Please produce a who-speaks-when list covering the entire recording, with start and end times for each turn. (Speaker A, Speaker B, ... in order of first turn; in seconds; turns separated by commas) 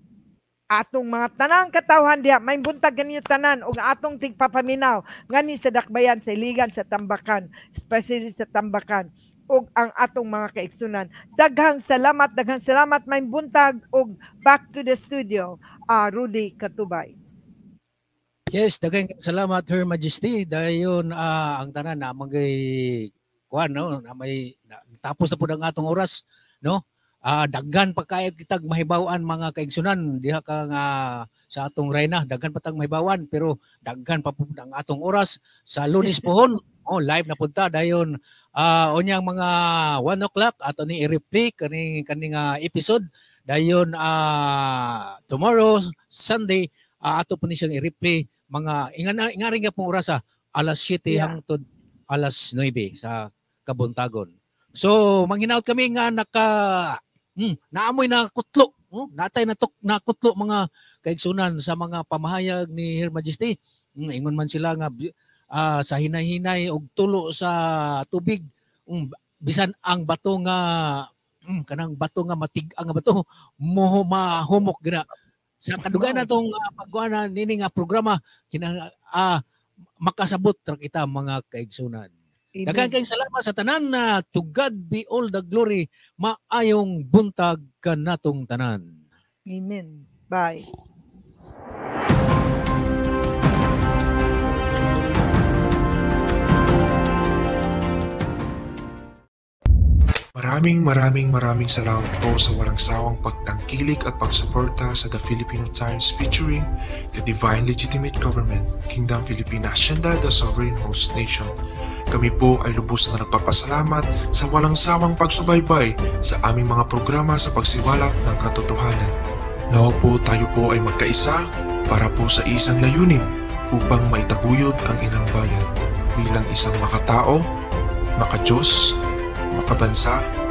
Speaker A: 0.7-17.1, Speaker B: 18.5-75.1, Speaker A: 51.1-51.4, Speaker B: 75.6-79.4, Speaker A: 75.8-76.3, Speaker B: 80.0-82.1, Speaker A: 82.6-82.9, Speaker B: 82.7-88.8, Speaker A: 89.5-90.7, Speaker C: 100.4-111.5, Speaker C: 112.1-119.1, Speaker C: 119.7-125.7, Speaker C: 126.2-127.4, Speaker C: 128.2-128.7, Speaker C: 129.5-130.2